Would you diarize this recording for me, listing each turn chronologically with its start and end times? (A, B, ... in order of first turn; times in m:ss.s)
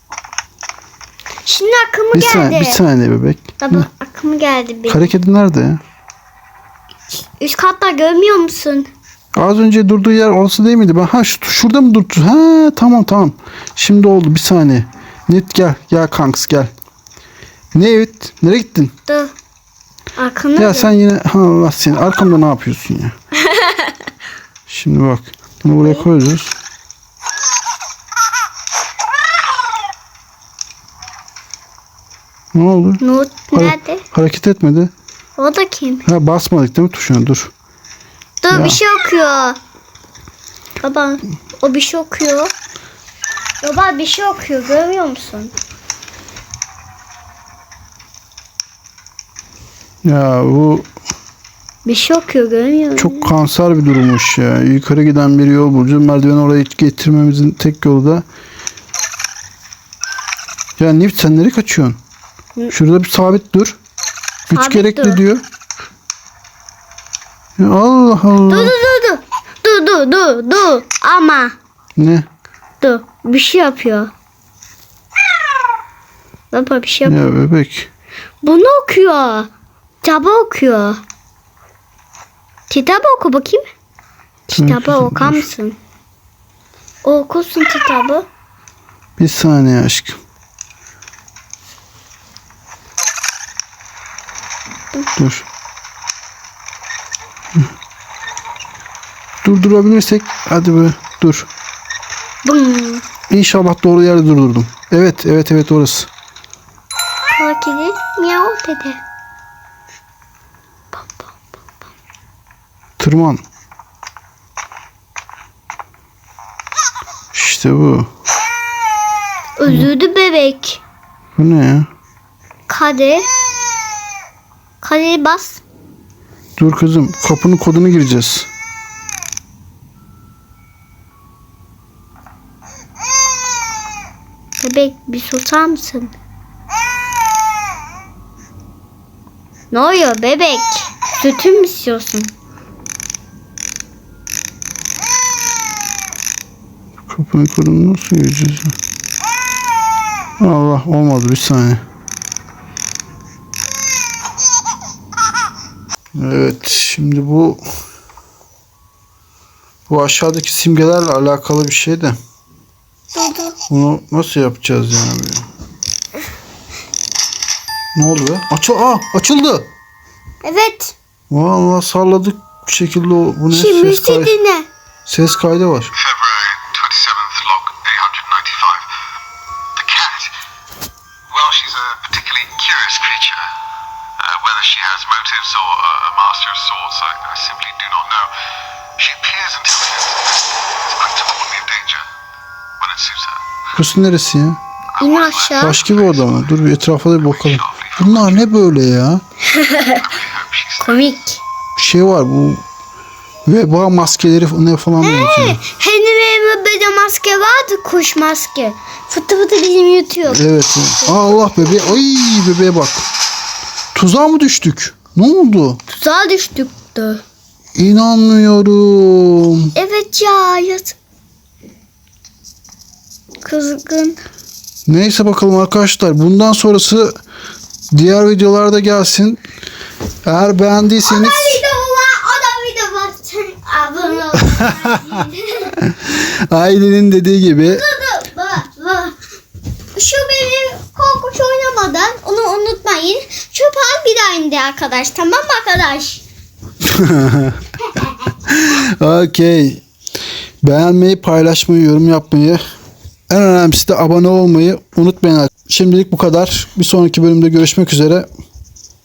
0:01.5-0:02.8 A
0:02.1-0:03.9 B
0:03.6-0:05.1 A
0:04.9-0:05.8 B
0:07.4-0:08.9 A
0:09.3-0:16.7 B
0:17.7-0:18.9 B
0:19.1-0:19.3 A
0:20.2-0:20.9 A
0:20.6-0:23.2 B
0:23.5-0:23.9 A
0:24.7-0:26.6 B
0:32.5-0:33.0 B
0:33.0-0:34.0 A
0:33.5-0:34.9 B
0:35.4-0:36.1 A
0:36.0-0:37.5 B
0:38.4-0:39.6 A
0:38.5-0:38.8 B
0:40.8-0:42.5 A
0:43.6-0:45.5 A
0:50.0-0:50.9 B
0:51.8-0:53.3 A
0:53.0-0:58.2 B
1:00.8-1:02.0 B
1:02.7-1:03.8 B
1:04.5-1:05.4 B
1:04.5-1:05.2 A
1:07.6-1:08.8 B
1:08.5-1:11.5 A
1:12.0-1:12.3 B
1:12.8-1:14.1 A
1:16.5-1:17.2 A
1:17.0-1:17.9 B
1:18.4-1:19.5 A
1:20.0-1:21.0 A
1:22.7-1:23.6 A
1:24.5-1:25.8 A
1:24.6-1:25.5 B
1:27.0-1:28.3 A
1:29.2-1:30.2 B
1:35.2-1:35.5 B
1:39.4-1:41.5 B
1:42.4-1:43.0 A
1:43.3-1:46.1 B
1:47.4-1:49.0 A
1:50.9-1:51.3 A
1:53.0-1:53.4 B
1:57.3-1:58.1 B
1:59.6-2:00.8 A
2:01.4-2:01.9 B
2:02.7-2:03.3 A
2:04.8-2:05.6 A
2:06.6-2:08.5 B
2:14.6-2:16.1 A
2:19.7-2:22.3 A
2:27.1-2:28.8 B
2:30.4-2:31.8 B
2:36.1-2:37.6 B
2:39.9-2:42.2 B
2:43.1-2:43.6 A
2:43.7-2:45.4 B
2:48.0-2:49.6 B
2:50.4-2:51.0 A
2:51.3-2:54.3 B
2:53.5-2:54.7 A
2:55.1-2:55.9 B
2:56.3-2:58.8 C
2:59.8-3:00.3 C
3:01.3-3:03.4 C
3:04.4-3:08.2 C
3:09.0-3:10.1 C
3:11.1-3:12.0 C
3:12.8-3:13.3 C
3:13.7-3:14.6 B
3:15.0-3:15.8 A
3:15.6-3:19.2 B
3:19.4-3:20.2 A
3:20.8-3:21.4 A
3:21.8-3:22.6 B
3:23.5-3:25.6 B
3:25.0-3:30.5 A
3:30.3-3:33.1 B
3:31.0-3:32.0 A
3:33.9-3:35.8 B
3:35.9-3:37.2 A
3:37.8-3:39.7 B
3:39.8-3:41.0 A
3:43.4-3:44.2 A
3:44.9-3:47.1 B
3:47.9-3:49.4 B
3:50.3-3:51.6 B
3:51.0-3:55.8 A
3:54.4-3:55.2 B
3:55.8-3:57.8 B
3:57.7-3:59.2 A
3:59.9-4:06.2 A
4:06.8-4:07.6 B
4:08.4-4:09.8 B
4:10.6-4:12.6 B
4:13.3-4:18.3 B